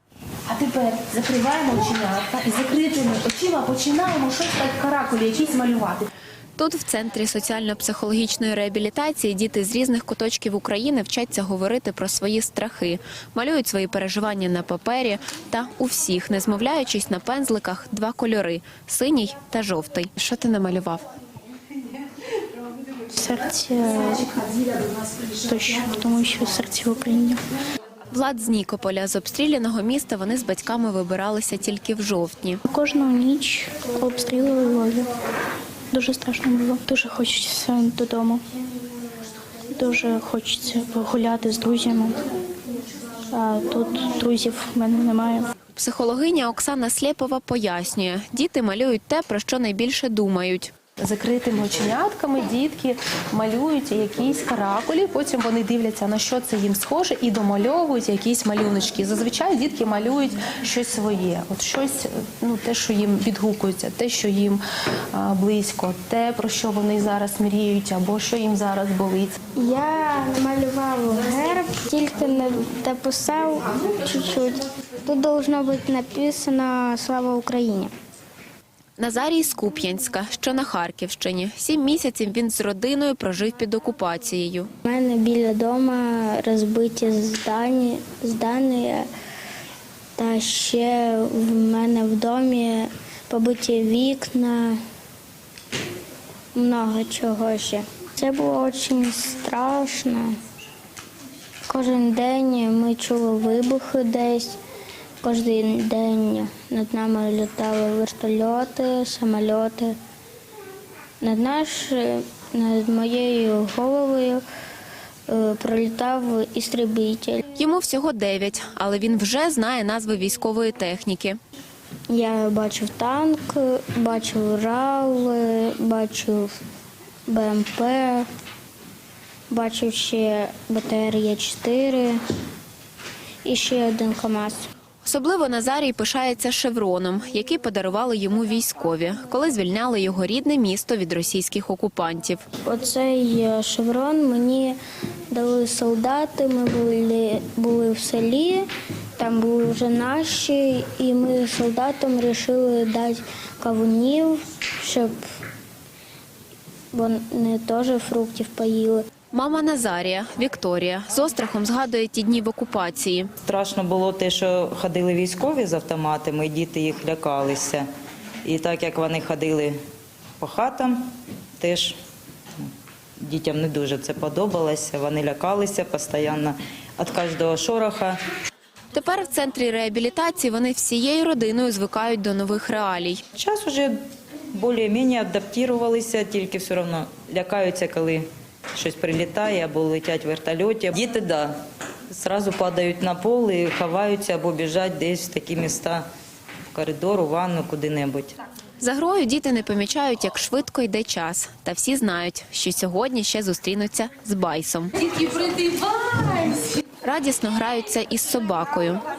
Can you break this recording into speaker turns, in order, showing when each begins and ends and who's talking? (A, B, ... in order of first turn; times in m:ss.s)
0:00.5-0:06.0 A
0:06.6-0:21.0 B
0:23.1-0:24.4 C
0:25.3-0:27.4 C
0:28.1-0:32.6 B
0:32.7-0:35.1 C
0:35.9-0:38.4 C
0:39.7-0:42.2 C
0:43.3-0:45.5 C
0:45.8-0:50.7 B
0:51.0-1:04.6 A
1:05.2-1:09.3 A
1:09.6-1:17.9 D
1:19.0-1:24.7 B
1:24.8-1:29.1 D
1:30.2-1:34.8 D
1:36.6-1:40.3 D
1:41.7-1:44.6 D
1:45.2-1:50.0 D
1:51.2-1:54.4 D
1:55.3-1:57.4 D
1:57.6-2:01.4 B
2:02.1-2:06.5 D
2:07.3-2:08.2 D
2:09.5-2:12.2 D
2:13.4-2:14.7 D
2:15.0-2:22.4 B
2:22.7-2:24.8 D
2:25.3-2:28.7 D
2:29.2-2:35.2 D
2:36.9-2:39.0 D
2:39.3-2:43.3 B
2:43.4-2:47.8 E
2:48.4-2:49.8 E
2:50.4-2:52.0 E
2:53.2-2:58.2 E
2:58.9-3:03.2 B
3:03.3-3:03.9 E
3:04.5-3:11.5 E
3:12.1-3:16.1 E
3:16.7-3:18.3 E
3:18.8-3:24.9 B
3:27.0-3:29.0 B